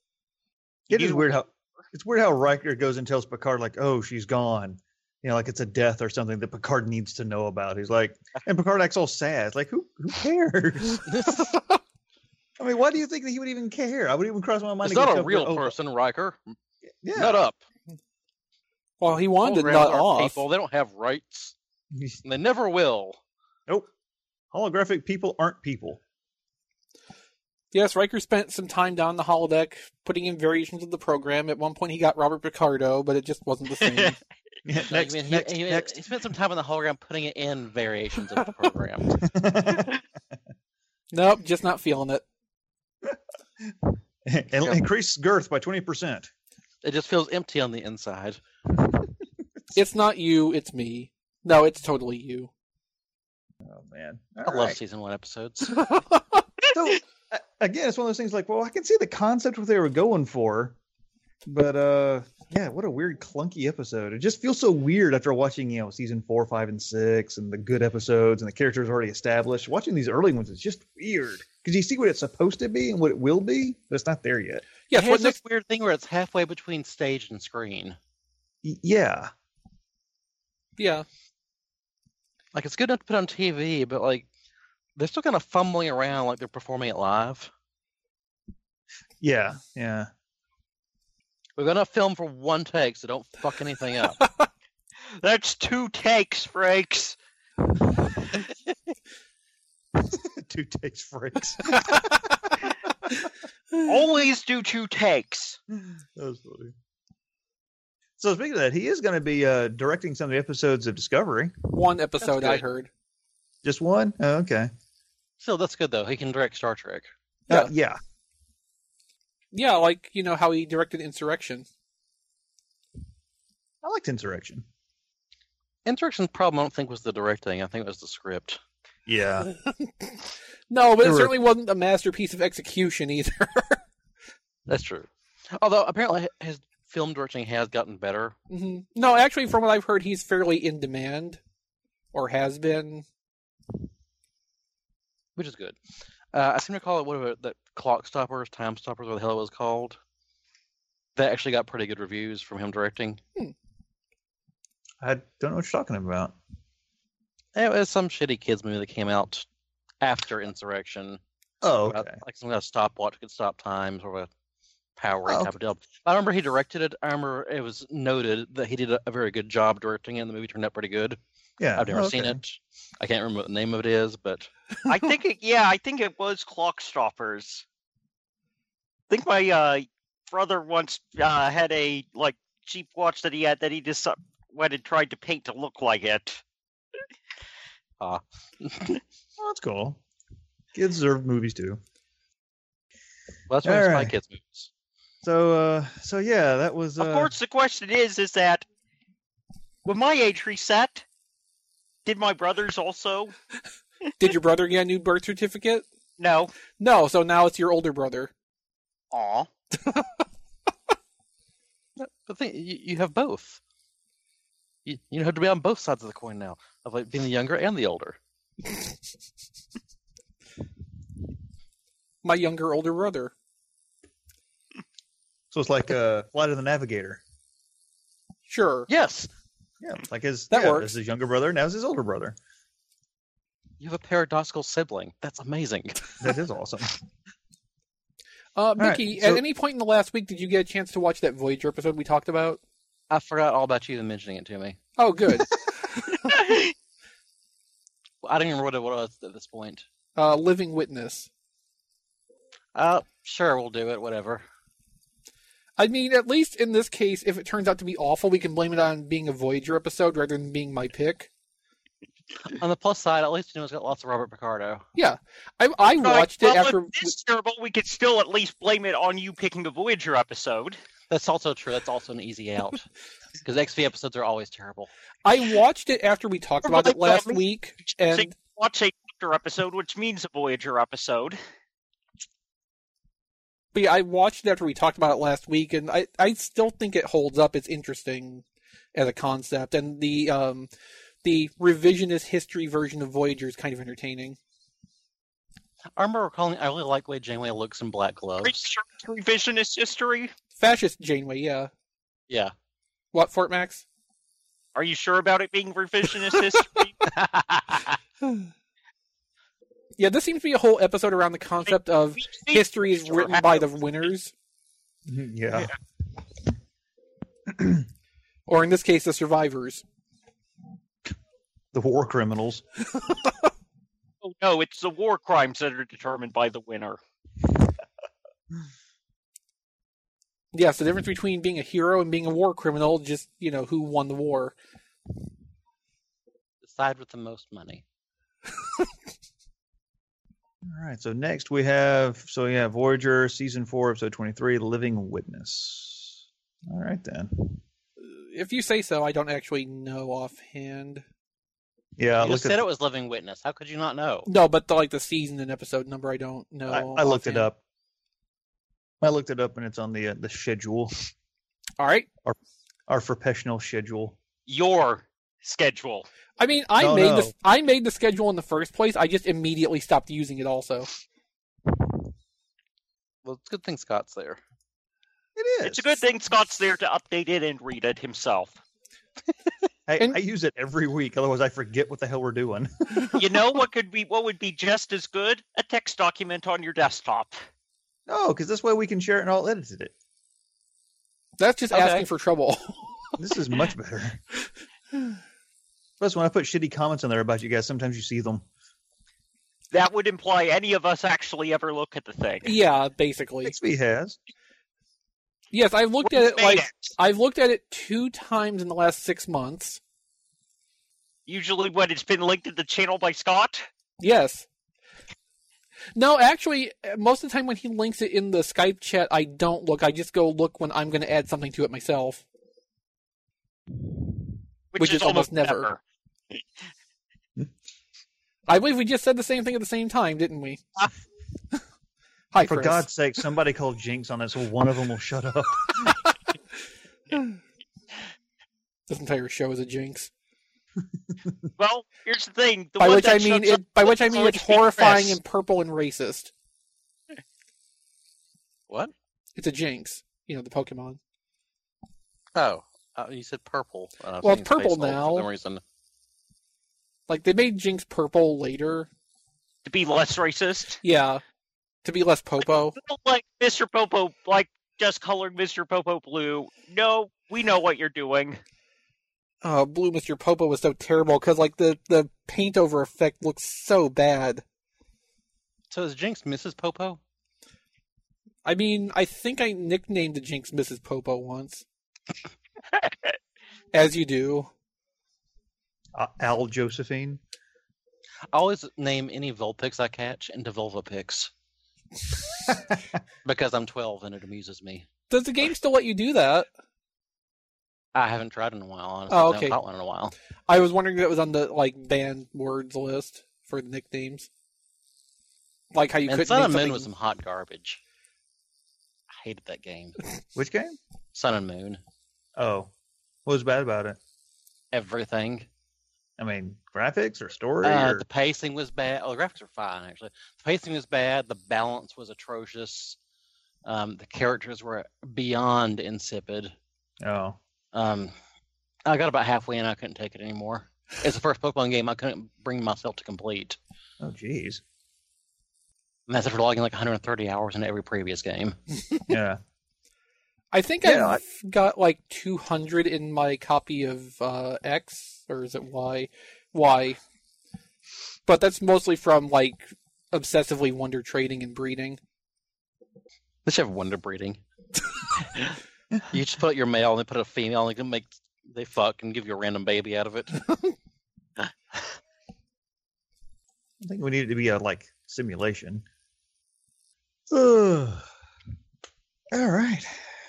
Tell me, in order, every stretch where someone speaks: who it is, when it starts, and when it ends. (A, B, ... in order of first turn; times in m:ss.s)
0:00.9-0:01.5 A
0:00.9-0:11.0 B
0:11.1-0:11.6 C
0:12.6-0:15.8 B
0:14.8-0:16.5 C
0:17.0-0:17.4 B
0:17.2-0:17.6 C
0:19.0-0:20.4 D
0:19.4-0:21.5 C
0:21.9-0:22.2 B
0:22.2-0:23.2 C
0:24.5-0:26.0 B
0:27.7-0:34.2 D
0:33.8-0:34.2 A
0:34.7-0:35.9 B
0:34.9-0:39.2 C
0:39.2-0:39.9 B
0:41.1-0:42.2 D
0:43.0-0:46.3 B
0:46.8-0:48.4 C
0:49.8-0:52.5 D
0:53.6-0:54.8 B
0:54.4-0:55.8 C
0:56.7-1:00.8 B
1:01.5-1:14.7 B
1:14.9-1:15.4 D
1:14.9-1:18.0 C
1:18.6-1:19.3 B
1:20.8-1:21.0 D
1:22.5-1:24.3 C
1:25.0-1:27.5 C
1:29.2-1:30.1 B
1:31.6-1:34.2 C
1:35.2-1:37.2 A
1:40.0-1:42.1 B
1:43.9-1:45.6 A
1:45.7-1:46.7 B
1:48.2-1:51.5 B
1:51.7-1:52.9 D
1:52.2-1:52.6 C
1:53.6-1:54.7 B
1:55.4-1:57.1 C
1:57.5-1:58.0 B
1:59.5-2:01.7 D
2:03.8-2:04.6 B
2:05.8-2:08.6 C
2:09.1-2:09.5 B
2:09.8-2:10.2 D
2:10.7-2:13.8 D
2:11.0-2:11.3 B
2:14.7-2:18.4 C
2:18.5-2:21.4 D
2:22.1-2:23.0 D
2:25.4-2:25.8 C
2:26.3-2:30.0 C
2:31.2-2:33.2 C
2:35.0-2:36.3 B
2:37.6-2:39.5 C
2:40.0-2:41.2 C
2:41.6-2:42.2 B
2:41.8-2:44.3 C
2:45.0-2:51.2 C
2:45.3-2:45.5 B
2:51.6-2:52.4 B
2:51.8-2:54.5 C
2:54.9-2:57.6 A
2:59.1-3:06.4 A
3:08.0-3:09.0 C
3:09.4-3:10.0 B
3:10.7-3:11.8 B
3:13.5-3:14.7 C
3:13.6-3:14.1 B
3:15.2-3:17.3 B
3:17.0-3:18.7 A
3:19.8-3:21.0 A
3:22.0-3:23.3 A
3:24.2-3:25.9 D
3:26.2-3:26.5 A
3:26.8-3:28.3 D
3:29.1-3:29.5 A
3:32.0-3:33.6 C
3:34.8-3:38.2 C
3:42.2-3:43.3 D
3:45.5-3:47.2 B
3:48.5-3:48.9 D
3:48.9-3:49.3 C
3:49.8-3:52.4 B
3:50.5-3:50.9 D
3:53.8-3:56.2 C
3:56.2-3:56.9 B
3:58.6-4:02.6 D
3:58.8-3:59.4 B
4:03.1-4:04.8 C
4:05.0-4:05.6 D
4:06.2-4:06.7 A
4:08.2-4:09.8 C
4:10.2-4:11.3 D
4:12.8-4:14.4 C
4:15.8-4:21.3 D
4:22.5-4:24.8 C
4:25.0-4:27.1 D
4:26.0-4:30.8 A
4:31.1-4:32.8 C
4:33.4-4:34.9 C
4:35.2-4:38.3 D
4:36.6-4:41.4 A
4:43.7-4:50.7 D
4:51.2-4:54.4 D
4:56.0-4:58.6 C
4:58.4-5:00.3 A
5:00.6-5:01.7 D
5:03.1-5:03.8 D
5:04.8-5:06.9 A
5:07.1-5:07.9 C
5:10.0-5:14.3 D
5:12.2-5:13.7 A
5:15.1-5:15.8 B
5:17.5-5:17.8 B
5:18.5-5:19.8 D
5:21.7-5:22.6 B
5:24.2-5:27.0 A
5:30.5-5:34.6 D
5:36.6-5:37.8 C
5:40.7-5:47.6 B
5:48.0-5:51.0 D
5:52.0-5:52.6 B
5:52.2-5:54.3 C
5:54.3-5:57.5 D
5:56.7-5:57.6 B
5:59.0-6:01.0 B
6:01.8-6:02.1 D
6:02.9-6:04.2 B
6:04.5-6:06.1 A
6:06.4-6:10.9 D
6:06.8-6:07.3 B
6:13.2-6:14.4 C
6:15.4-6:16.0 B
6:15.6-6:18.6 A
6:19.9-6:23.2 B
6:23.1-6:27.4 A
6:28.1-6:29.9 B
6:31.4-6:32.9 D
6:31.7-6:32.0 A
6:33.2-6:34.2 B
6:36.0-6:38.4 B
6:39.7-6:42.6 A
6:42.4-6:43.6 D
6:43.4-6:44.2 B
6:45.5-6:49.8 D
6:46.0-6:46.9 A
6:51.3-6:53.7 A
6:54.0-6:54.5 D
6:56.0-7:02.2 D
7:04.7-7:05.8 A
7:04.8-7:05.7 D
7:08.5-7:10.6 D
7:12.3-7:12.9 D
7:12.4-7:16.0 B
7:18.9-7:20.1 D
7:21.6-7:25.2 A
7:22.8-7:26.3 D
7:29.4-7:31.0 D
7:32.4-7:35.6 C
7:34.2-7:35.3 D
7:37.1-7:38.9 D
7:39.6-7:40.8 A
7:40.8-7:41.2 D
7:41.8-7:42.8 D
7:42.8-7:48.4 A
7:49.4-7:54.4 D
7:55.7-7:57.0 C
7:58.4-8:01.6 D
8:03.7-8:04.5 D
8:06.0-8:07.2 B
8:08.3-8:11.3 C
8:13.2-8:14.9 C
8:15.1-8:16.5 D
8:18.0-8:20.1 C
8:19.1-8:19.6 D
8:20.5-8:24.3 D
8:25.7-8:26.9 D
8:26.1-8:27.8 C
8:29.2-8:30.0 C
8:30.4-8:30.8 B
8:31.1-8:31.8 C
8:32.4-8:32.7 B
8:33.3-8:34.0 B
8:34.7-8:35.5 C
8:36.2-8:38.1 B
8:37.6-8:43.0 C
8:43.6-8:46.5 C
8:47.0-8:47.4 B
8:47.7-8:48.1 C
8:48.9-8:53.6 C
8:54.0-8:54.6 B
8:56.1-8:58.6 C
8:59.1-8:59.4 B
9:00.5-9:07.0 D
9:00.8-9:01.2 B
9:08.3-9:12.0 D
9:13.4-9:14.4 C
9:16.1-9:20.4 C
9:23.8-9:25.8 B
9:27.3-9:28.1 B
9:29.3-9:30.0 B